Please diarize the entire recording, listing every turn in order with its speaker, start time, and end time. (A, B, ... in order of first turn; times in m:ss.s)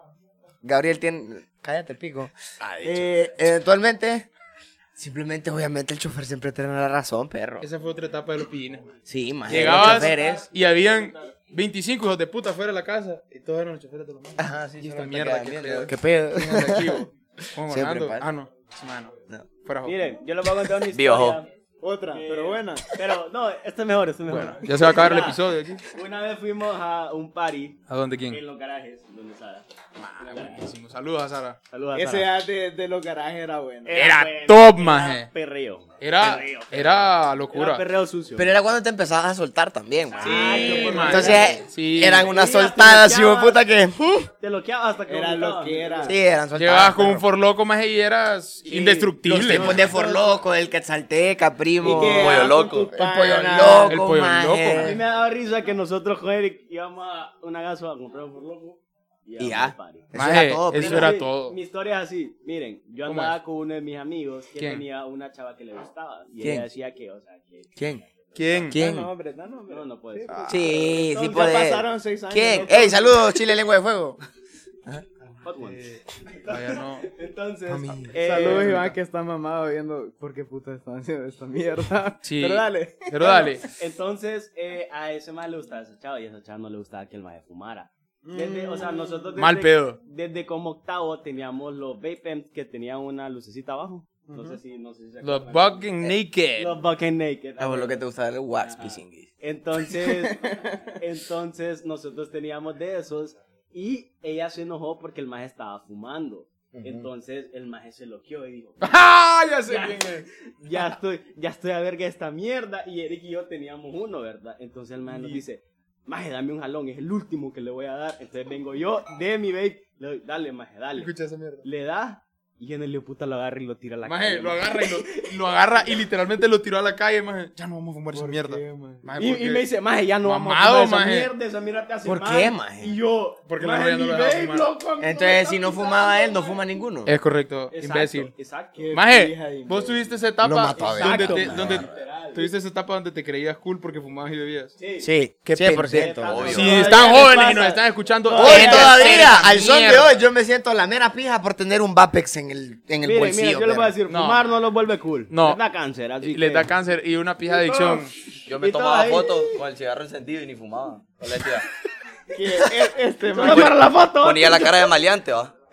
0:00.6-0:04.3 A
0:05.0-0:07.7 A
0:07.6-0:09.0 B
0:09.1-0:10.5 A
0:09.5-0:20.0 B
0:14.4-0:17.0 A
0:17.6-0:18.2 A
0:19.8-0:21.5 C
0:20.9-0:21.4 D
0:21.8-0:22.9 E
0:22.1-0:25.4 C
0:24.3-0:25.8 B
0:25.9-0:30.6 C
0:27.9-0:28.4 B
0:30.0-0:31.6 B
0:31.7-0:32.3 C
0:31.9-0:34.0 E
0:33.8-0:38.5 C
0:33.9-0:35.3 B
0:36.0-0:37.8 B
0:38.3-0:44.3 A
0:40.1-0:41.6 C
0:40.2-0:42.2 B
0:40.2-0:41.5 E
0:42.1-0:43.6 C
0:44.4-0:46.1 C
0:45.1-0:46.2 E
0:46.0-0:47.2 A
0:46.5-0:49.8 B
0:48.7-0:50.4 C
0:49.2-0:55.0 A
0:51.8-0:54.0 E
0:51.9-0:52.9 D
0:53.8-0:55.0 B
0:54.8-1:00.1 C
0:59.4-1:01.1 A
1:00.1-1:01.6 B
1:00.7-1:07.7 C
1:03.0-1:03.4 B
1:04.6-1:04.8 B
1:06.4-1:06.7 A
1:07.8-1:08.0 A
1:08.3-1:08.7 C
1:08.3-1:08.8 B
1:08.7-1:09.1 A
1:08.7-1:13.2 E
1:09.7-1:11.6 C
1:10.5-1:14.2 A
1:15.4-1:18.8 C
1:16.5-1:17.1 B
1:17.7-1:18.2 A
1:18.1-1:18.9 B
1:18.2-1:23.5 E
1:22.2-1:23.6 B
1:23.7-1:38.0 C
1:28.2-1:29.2 E
1:29.4-1:30.0 B
1:35.2-1:36.8 B
1:37.6-1:39.3 A
1:38.6-1:48.8 C
1:40.0-1:40.8 E
1:46.7-1:47.1 A
1:48.8-1:50.2 B
1:49.7-1:50.1 C
1:50.6-2:01.1 C
1:55.1-1:55.4 B
2:00.9-2:01.6 B
2:01.6-2:05.2 C
2:04.0-2:09.6 B
2:08.1-2:09.0 E
2:09.2-2:16.4 C
2:10.2-2:11.3 B
2:12.0-2:12.9 A
2:13.5-2:14.7 B
2:15.0-2:17.1 A
2:17.0-2:18.3 B
2:17.7-2:18.8 C
2:18.8-2:20.1 E
2:18.9-2:24.7 B
2:20.4-2:21.8 A
2:20.8-2:22.5 C
2:24.8-2:25.1 C
2:25.0-2:26.7 A
2:25.5-2:30.1 B
2:25.9-2:27.8 C
2:25.9-2:27.7 E
2:26.3-2:26.8 D
2:28.3-2:29.2 E
2:28.3-2:28.9 C
2:28.3-2:33.9 A
2:33.0-2:36.7 C
2:34.1-2:34.5 B
2:35.3-2:35.6 B
2:36.2-2:38.1 B
2:37.6-2:38.0 E
2:38.5-2:41.7 D
2:38.6-2:39.3 C
2:42.3-2:43.8 E
2:43.3-2:44.9 C
2:43.4-2:45.5 D